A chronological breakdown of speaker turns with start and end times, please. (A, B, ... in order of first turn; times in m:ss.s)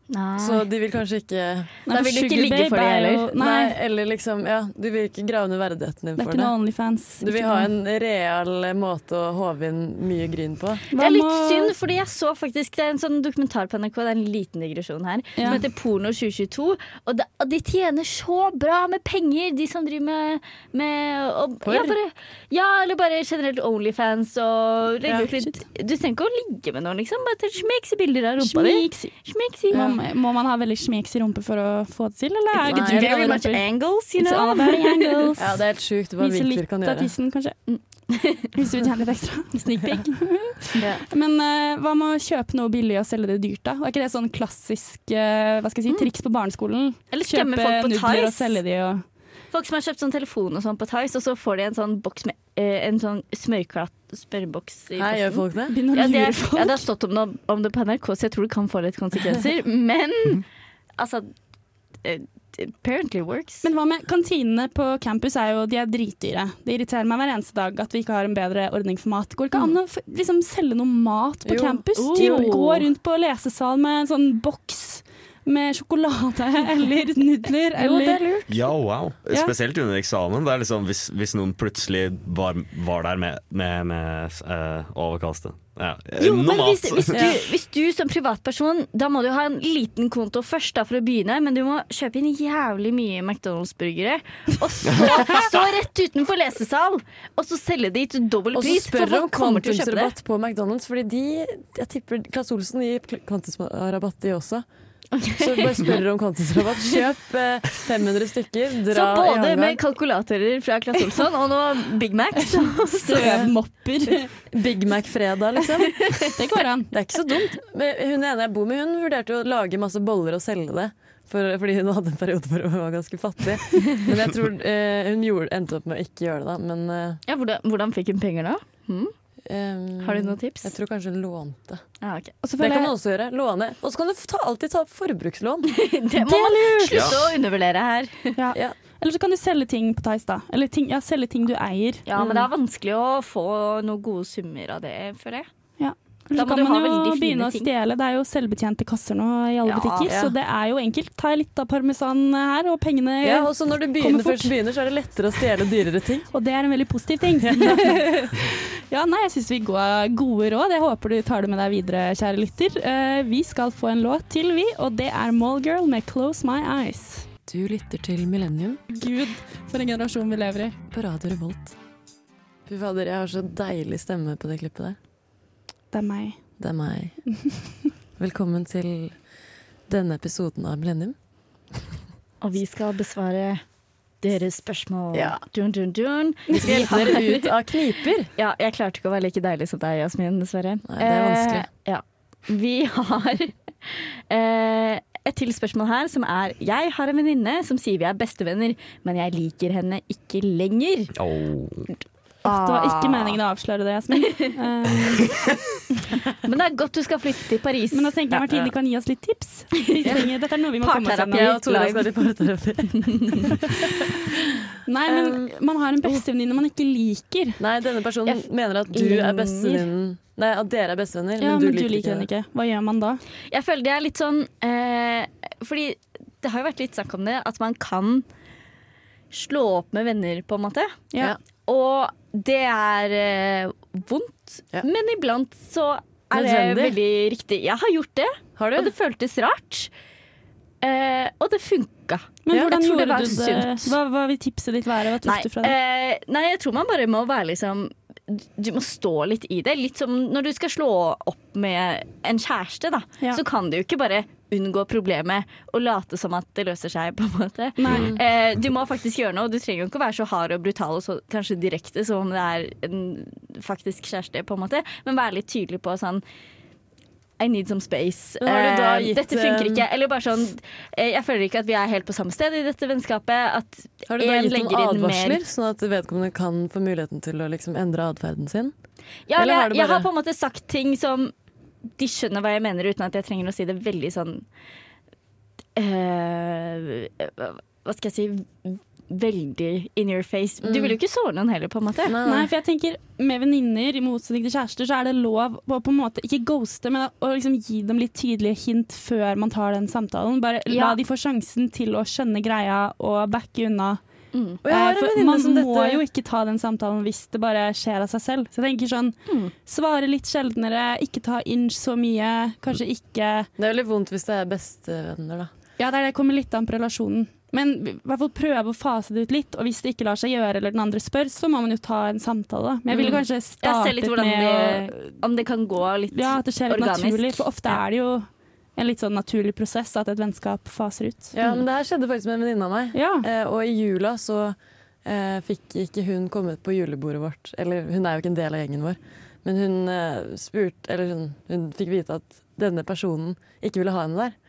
0:00.1-0:00.7 A
0:00.4-0:01.7 B
0:01.9-0:03.8 C
0:01.9-0:03.3 A
0:03.4-0:06.5 B
0:06.2-0:07.7 C
0:07.2-0:10.8 B
0:10.9-0:11.8 C
0:10.9-0:29.9 A
0:15.4-0:15.6 C
0:21.6-0:22.0 B
0:28.4-0:29.1 C
0:29.7-0:33.6 C
0:29.7-0:30.0 B
0:32.6-0:35.4 A
0:32.7-0:33.4 B
0:34.2-0:35.5 C
0:35.4-0:37.1 B
0:36.2-0:37.6 C
0:37.7-0:38.6 A
0:38.6-0:49.0 C
0:39.6-0:40.1 A
0:40.8-0:41.0 B
0:47.1-0:48.6 A
0:49.5-1:00.5 A
0:55.0-0:55.8 B
0:55.7-0:56.8 C
1:01.0-1:01.3 A
1:02.0-1:03.7 A
1:03.6-1:18.2 C
1:11.4-1:12.4 B
1:12.0-1:12.9 A
1:17.8-1:18.6 B
1:18.5-1:27.2 D
1:26.2-1:40.1 A
1:27.1-1:27.4 B
1:38.5-1:44.6 B
1:45.2-1:46.0 A
1:45.4-1:49.8 B
1:48.9-1:53.5 A
1:52.4-1:54.3 C
1:54.5-1:56.3 B
1:56.4-1:56.9 C
1:56.9-2:07.2 B
2:07.3-2:09.1 A
2:09.5-2:11.8 B
2:10.0-2:10.7 A
2:12.0-2:12.3 A
2:12.4-2:12.9 C
2:12.6-2:15.8 B
2:15.7-2:18.4 A
2:16.2-2:17.1 C
2:16.9-2:17.2 D
2:18.4-2:22.0 C
2:22.1-2:25.5 A
2:22.1-2:22.5 B
2:25.8-2:34.6 C
2:26.4-2:27.7 A
2:29.7-2:30.1 A
2:30.1-2:30.3 B
2:33.2-2:36.3 B
2:36.3-2:47.3 C
2:37.4-2:38.1 B
2:47.5-2:48.8 B
2:48.9-2:50.8 C
2:50.9-2:51.8 B
2:52.7-2:55.0 B
2:55.9-2:56.4 C
2:56.6-2:57.2 B
2:58.2-2:59.2 B
2:59.9-3:01.2 B
3:02.4-3:03.6 A
3:04.2-3:07.5 A
3:05.1-3:05.4 B
3:06.5-3:08.3 B
3:08.4-3:21.1 A
3:10.9-3:11.7 B
3:21.2-3:21.9 D
3:22.4-3:23.4 A
3:22.4-3:25.3 C
3:24.1-3:24.5 A
3:26.4-3:28.2 A
3:27.9-3:31.5 C
3:29.9-3:30.2 A
3:30.8-3:32.3 A
3:31.3-3:34.1 B
3:33.0-3:33.5 A
3:34.8-3:37.6 C
3:35.1-3:35.5 B
3:37.6-3:42.3 B
3:38.9-3:39.9 A
3:41.4-3:43.2 C
3:43.5-3:48.2 A
3:49.3-3:51.0 A
3:51.7-3:59.9 A
3:56.3-3:57.0 B
3:58.6-3:58.9 B
4:00.8-4:04.0 A
4:02.4-4:05.8 C
4:05.2-4:26.2 A
4:17.8-4:18.2 C
4:17.9-4:18.2 D
4:27.4-4:35.4 A
4:28.4-4:29.8 B
4:34.1-4:38.7 B
4:39.3-4:41.3 A
4:39.4-4:40.1 B
4:42.0-4:44.4 A
4:45.8-4:52.2 A
4:50.6-4:51.0 B
4:52.1-4:52.5 B
4:52.2-5:04.0 C
5:00.7-5:01.0 A
5:04.3-5:04.6 A
5:04.6-5:06.0 B
5:04.7-5:13.5 C
5:09.3-5:09.5 A
5:13.6-5:15.5 B
5:15.8-5:25.1 C
5:22.9-5:23.2 B
5:23.0-5:27.5 A
5:26.1-5:31.3 C
5:31.3-5:44.4 B
5:32.9-5:33.3 C